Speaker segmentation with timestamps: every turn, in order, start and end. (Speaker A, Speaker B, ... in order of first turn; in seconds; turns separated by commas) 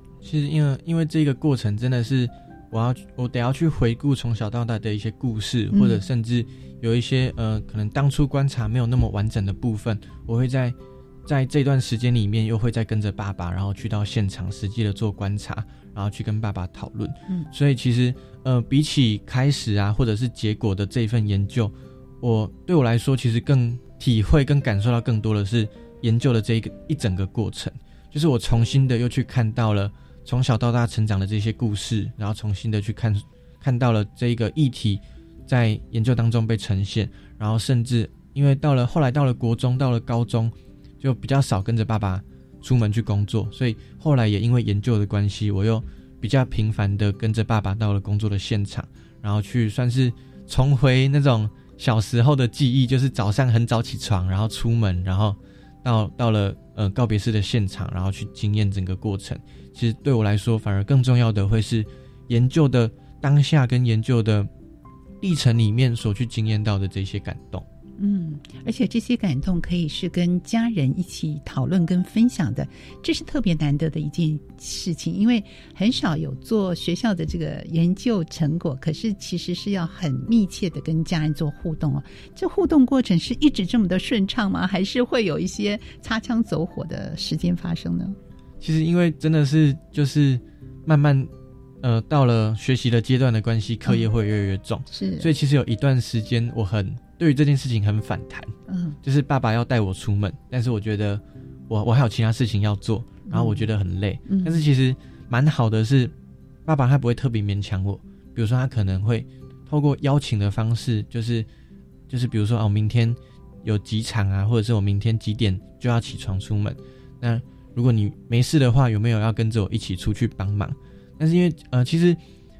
Speaker A: 0.2-64.5, Speaker B: 5.7-6.0, Speaker A: 65.2-67.6, Speaker B: 68.0-88.2, Speaker A: 88.6-91.3, Speaker A: 91.8-98.5, Speaker B: 94.9-95.3, Speaker B: 98.7-99.0, Speaker A: 99.0-106.1, Speaker B: 103.3-103.7, Speaker B: 104.3-104.6, Speaker A: 106.7-111.5, Speaker A: 112.1-122.2